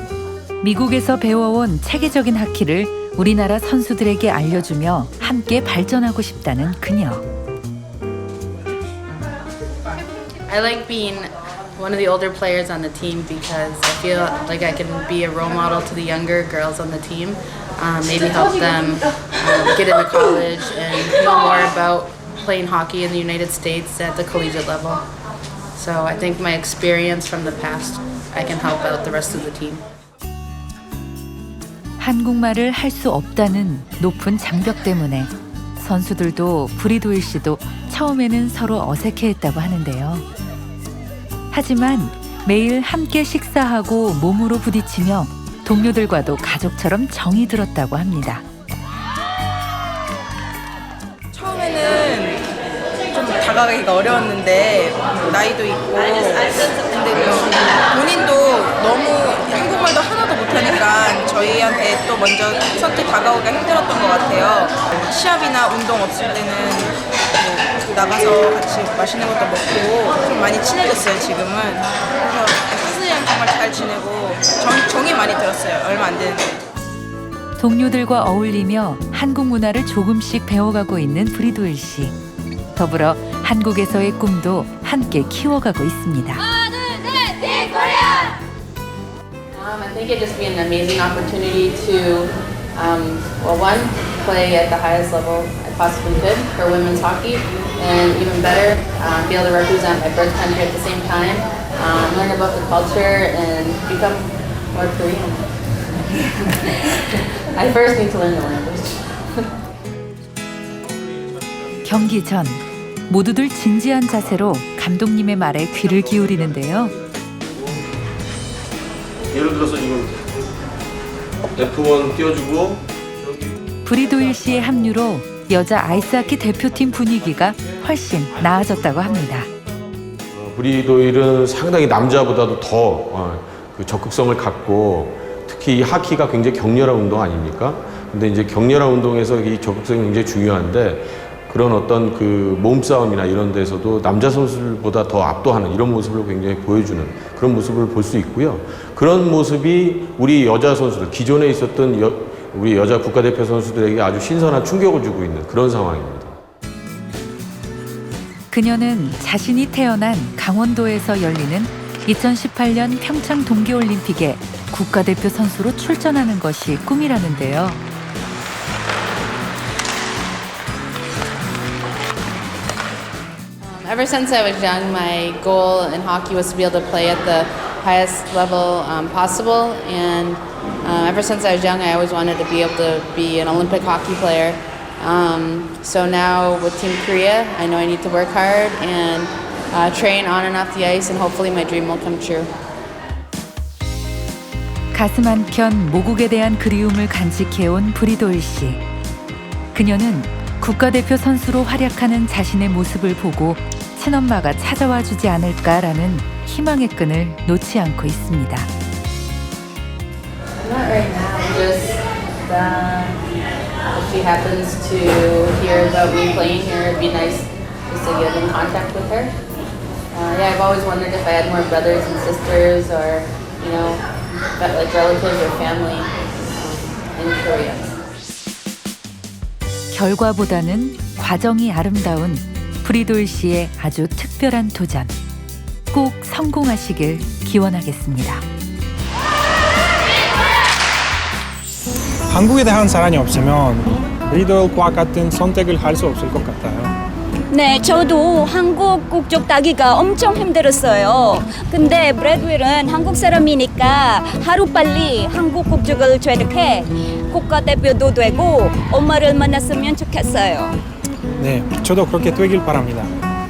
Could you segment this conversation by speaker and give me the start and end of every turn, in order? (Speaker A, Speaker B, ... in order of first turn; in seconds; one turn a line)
Speaker A: 0.6-7.2
Speaker B: 10.5-25.0
Speaker B: 25.8-29.8
Speaker A: 32.0-40.2
Speaker A: 41.5-48.4
Speaker C: 51.3-52.5
Speaker C: 53.1-76.6
Speaker A: 77.6-82.2
Speaker A: 82.8-86.4
Speaker D: 86.4-88.4
Speaker B: 89.5-105.5
Speaker B: 106.2-109.2
Speaker A: 111.8-116.9
Speaker E: 117.4-117.8
Speaker E: 119.3-120.3
Speaker E: 121.5-123.5
Speaker A: 123.8-129.5
Speaker E: 130.3-156.4
Speaker A: 158.5-167.8
Speaker B: 173.6-192.5
Speaker A: 194.9-198.8
Speaker A: 199.7-208.7
Speaker B: 210.6-213.2
Speaker B: 213.9-219.3
Speaker B: 220.1-228.0
Speaker A: 229.9-235.2
Speaker A: 235.9-238.4
Speaker F: 242.3-246.9
Speaker D: 247.5-260.8
Speaker F: 261.4-263.1